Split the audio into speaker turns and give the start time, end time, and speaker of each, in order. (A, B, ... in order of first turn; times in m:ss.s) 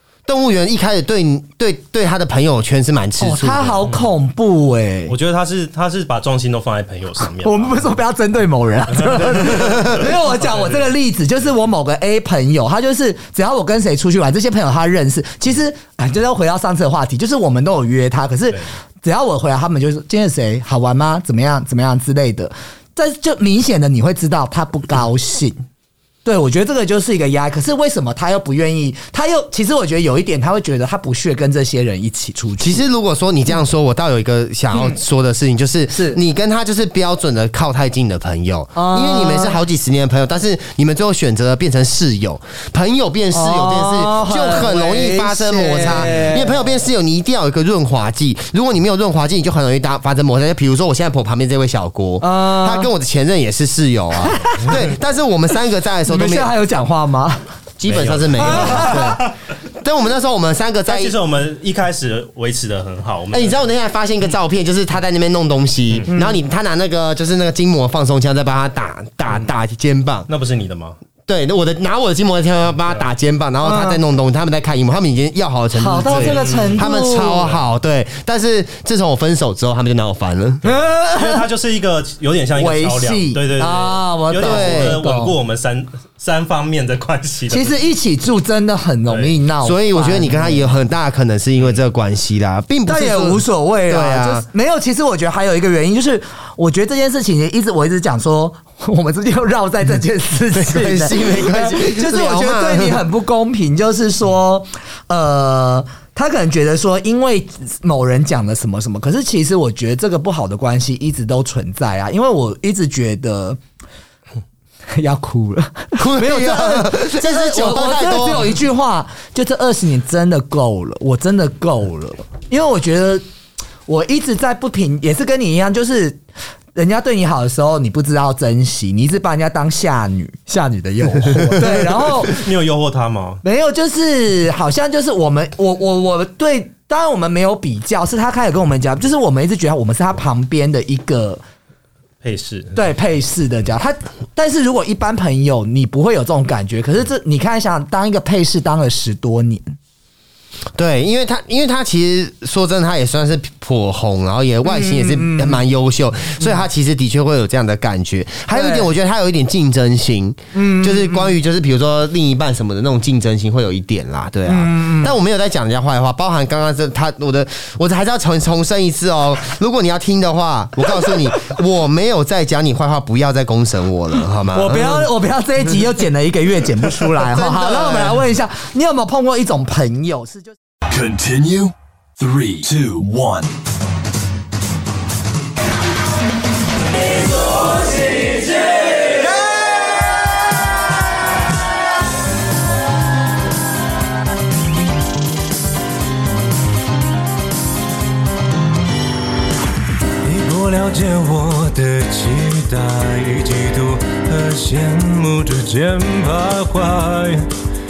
0:00.3-0:03.8 A
0:03.2-0:05.2 B
0:05.1-0:07.9 C
0:07.4-0:25.6 B
0:09.1-0:09.9 C
0:26.2-0:32.8 B
0:32.6-0:56.5 A
0:34.7-0:35.0 B
0:35.9-0:36.2 B
0:38.8-0:39.6 B
0:43.3-0:46.6 B
0:52.2-0:52.9 B
0:54.2-0:54.7 B
0:56.1-0:57.4 B
0:57.8-1:01.2 A
0:57.9-0:59.4 C
0:58.4-0:59.3 B
1:00.9-1:03.6 C
1:03.3-1:10.3 A
1:06.1-1:06.4 B
1:10.3-1:11.0 C
1:11.3-1:20.6 A
1:13.6-1:14.0 B
1:15.7-1:17.4 B
1:16.1-1:17.6 C
1:20.6-1:21.5 B
1:20.6-1:27.8 C
1:22.6-1:25.3 B
1:24.4-1:25.0 A
1:27.5-1:30.8 B
1:29.1-1:29.3 C
1:29.6-1:34.4 A
1:32.9-1:53.6 B
1:40.5-1:43.0 A
1:55.0-2:03.2 B
1:56.0-1:58.6 A
2:03.9-2:06.2 B
2:06.8-2:12.4 B
2:12.0-2:13.4 C
2:13.4-2:21.4 B
2:22.2-2:22.8 C
2:22.8-2:29.7 B
2:30.8-2:55.1 A
2:34.6-2:35.6 B
2:38.5-2:38.9 B
2:40.5-2:41.4 B
2:44.5-2:45.2 B
2:54.5-3:00.6 B
2:57.3-2:58.2 A
3:01.0-3:01.7 D
3:02.2-3:03.5 D
3:20.2-3:27.5 E